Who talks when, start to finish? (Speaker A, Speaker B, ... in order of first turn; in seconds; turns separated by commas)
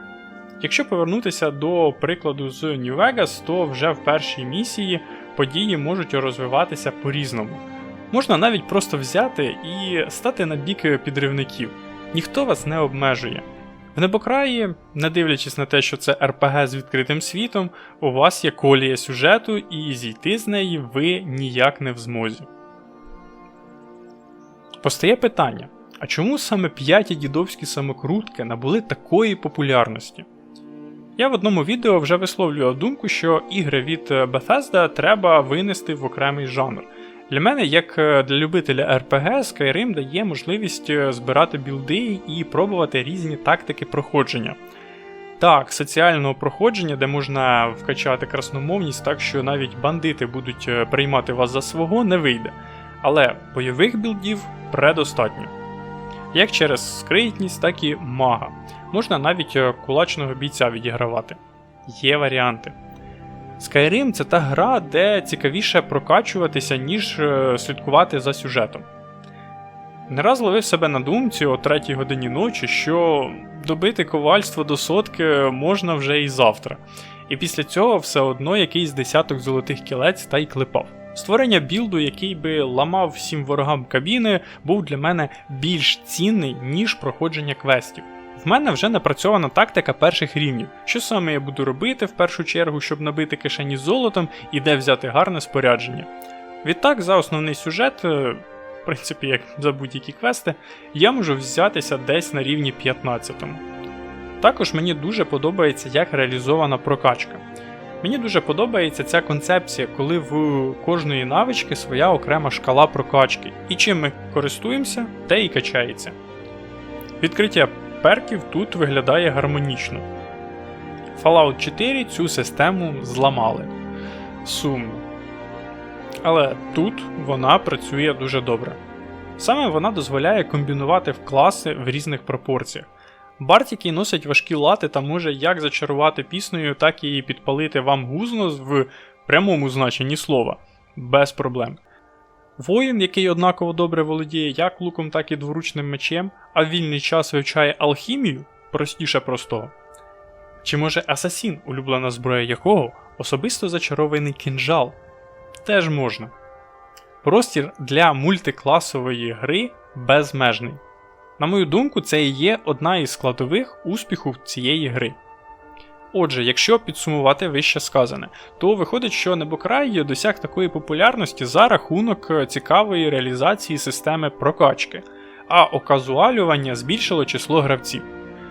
Speaker A: 0.6-22.5, Speaker A: 24.8-30.2, Speaker A: 31.2-44.6, Speaker A: 45.4-55.5, Speaker A: 56.3-62.8, Speaker A: 63.6-68.8, Speaker A: 70.1-96.1, Speaker A: 96.6-103.6, Speaker A: 104.4-107.4, Speaker A: 108.0-116.2, Speaker A: 117.2-120.1, Speaker A: 121.1-123.7, Speaker A: 124.4-125.0, Speaker A: 126.2-128.8, Speaker A: 129.4-132.9, Speaker A: 133.4-141.8, Speaker A: 142.6-149.7, Speaker A: 150.6-155.0, Speaker A: 155.6-156.3, Speaker A: 157.2-160.8, Speaker A: 161.4-165.2, Speaker A: 166.1-178.1